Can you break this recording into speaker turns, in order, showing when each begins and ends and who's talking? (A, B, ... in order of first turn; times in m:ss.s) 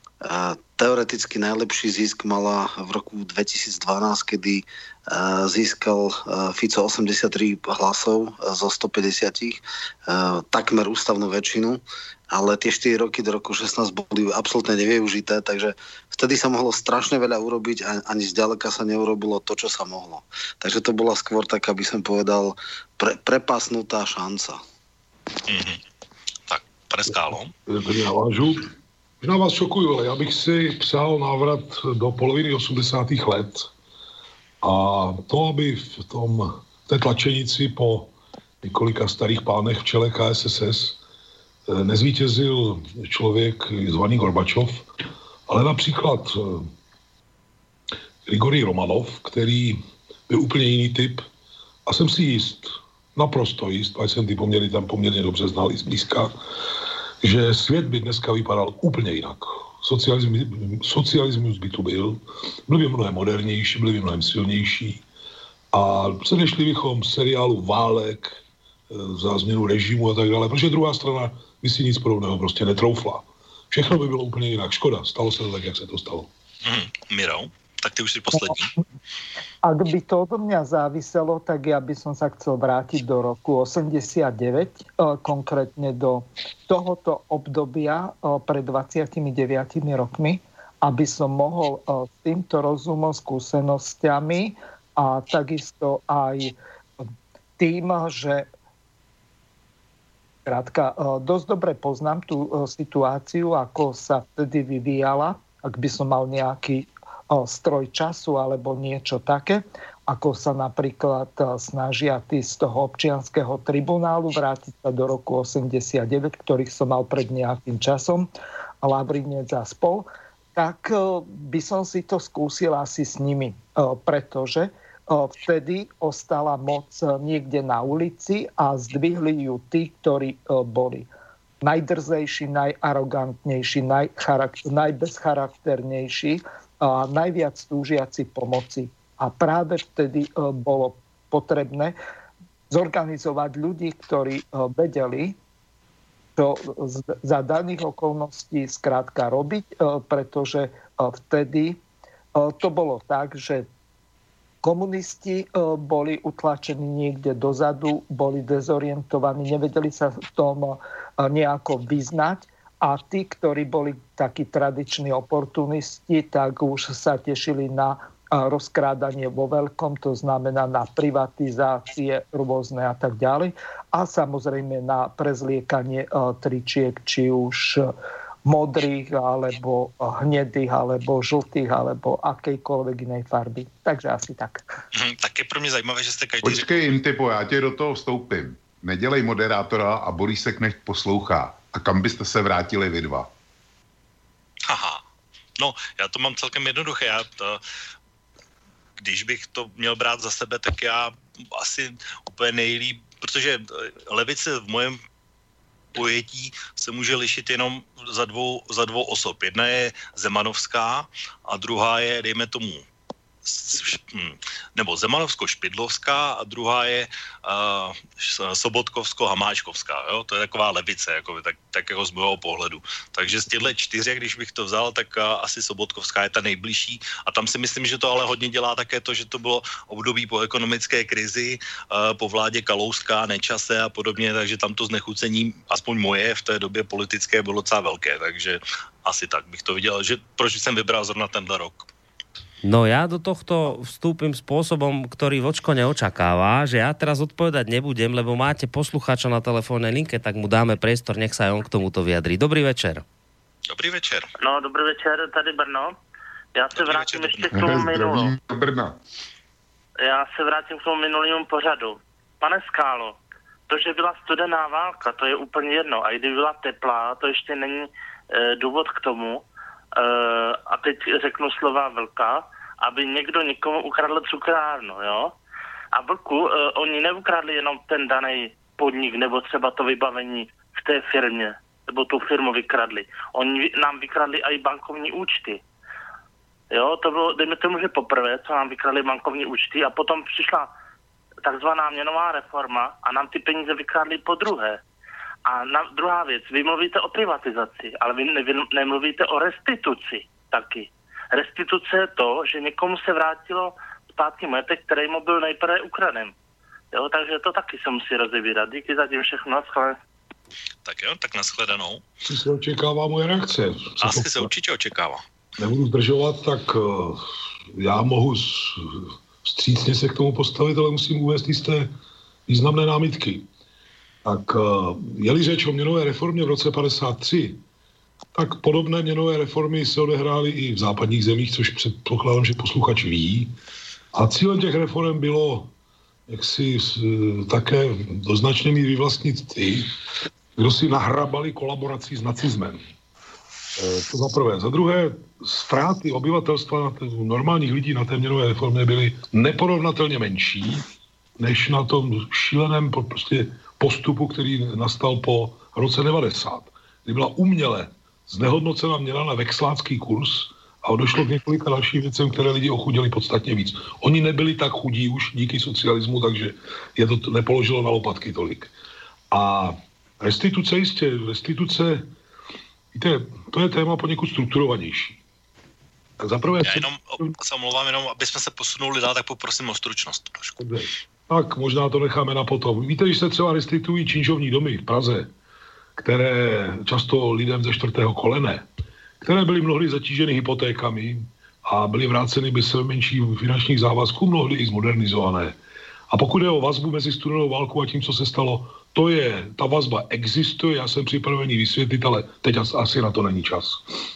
0:00.2-0:11.8 A
0:12.3-0:24.6 A
0:25.5-0:25.8 B
0:26.5-0:27.5 B
0:27.7-0:28.7 C
0:29.2-0:33.7 C
0:34.6-0:38.1 C
0:38.6-0:41.0 C
0:41.7-0:44.8 C
0:45.5-0:46.7 C
0:48.2-0:51.2 C
0:51.8-0:56.3 C
0:57.2-1:05.0 C
1:05.7-1:08.4 C
1:08.9-1:16.3 C
1:16.6-1:18.7 B
1:19.6-1:37.0 D
1:37.6-1:38.5 D
1:40.4-1:58.3 D
1:58.8-2:11.1 D
2:11.6-2:21.9 D
2:22.7-2:25.4 D
2:26.4-2:31.8 D
2:32.3-2:33.7 D
2:34.6-2:57.9 D
2:58.4-3:04.6 D
3:04.9-3:06.9 B
3:06.4-3:13.3 E
3:14.6-3:15.0 B
3:15.6-3:17.6 B
3:19.0-3:25.0 B
3:25.9-3:32.8 B
3:33.4-4:01.9 B
4:02.6-4:13.0 F
4:13.7-4:14.3 B
4:14.4-4:15.9 G
4:16.5-4:18.3 G
4:16.8-4:17.8 B
4:17.5-4:19.0 E
4:20.0-4:23.2 G
4:23.7-4:29.4 G
4:30.0-4:35.3 G
4:35.9-4:45.6 G
4:46.7-4:50.7 G
4:51.4-4:54.8 G
4:55.5-5:06.3 G
5:06.9-5:10.0 G
5:10.8-5:12.0 B
5:12.2-5:14.5 C
5:14.0-5:15.2 B
5:15.6-5:17.2 C
5:17.8-5:21.9 C
5:22.5-5:23.4 C
5:24.2-5:27.6 C
5:28.3-5:33.5 C
5:34.1-5:35.7 C
5:36.3-5:39.9 C
5:40.6-5:42.8 C
5:43.8-5:50.8 C
5:51.4-6:08.7 C
6:09.3-6:12.1 C
6:12.9-6:15.2 C
6:16.2-6:17.3 C
6:16.6-6:20.6 B
6:20.6-6:25.3 C
6:26.0-6:28.6 C
6:29.2-6:35.6 C
6:36.1-6:43.8 C